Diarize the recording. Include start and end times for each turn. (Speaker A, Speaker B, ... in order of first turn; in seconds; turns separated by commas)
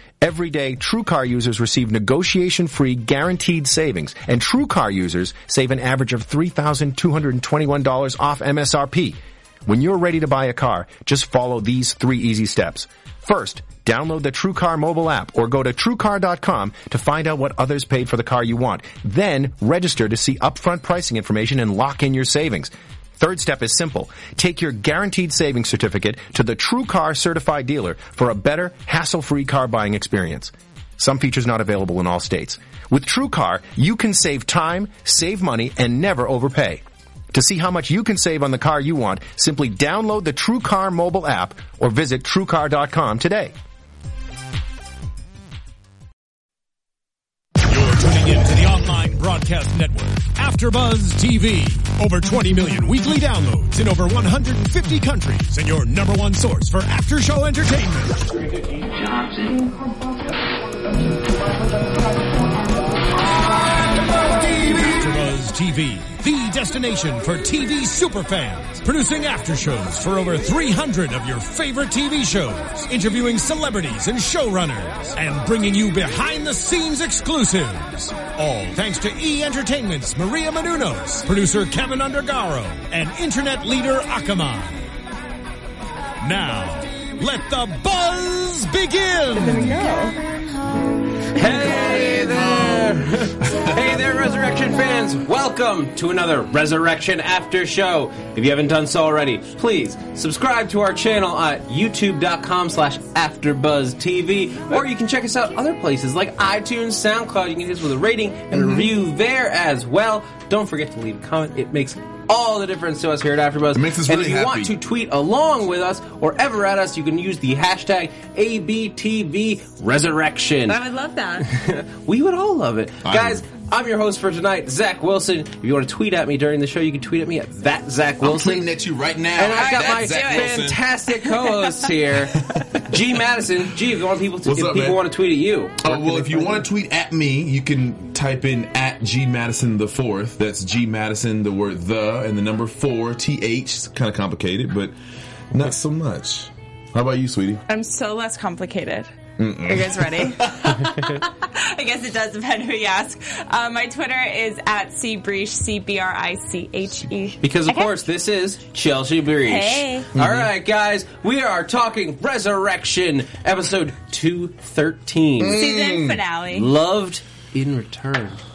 Speaker A: 0.2-43.5, Speaker B: 47.6-58.4, Speaker B: 64.2-84.9, Speaker B: 86.2-89.7, Speaker C: 89.3-90.2, Speaker D: 91.3-120.8, Speaker E: 92.4-92.8, Speaker E: 108.5-108.9, Speaker E: 113.7-114.7, Speaker C: 120.7-121.5, Speaker D: 121.4-128.7, Speaker E: 123.0-123.4, Speaker E: 128.2-130.8, Speaker D: 129.3-136.7, Speaker C: 129.5-131.7, Speaker E: 132.5-132.8, Speaker E: 134.4-135.0, Speaker E: 135.8-144.9, Speaker E: 145.5-147.6, Speaker C: 147.7-149.1, Speaker E: 149.4-150.8, Speaker C: 149.6-157.9, Speaker D: 157.4-165.6, Speaker C: 159.4-160.1, Speaker E: 160.1-160.5, Speaker E: 165.4-166.2, Speaker C: 165.5-166.7, Speaker D: 166.5-168.4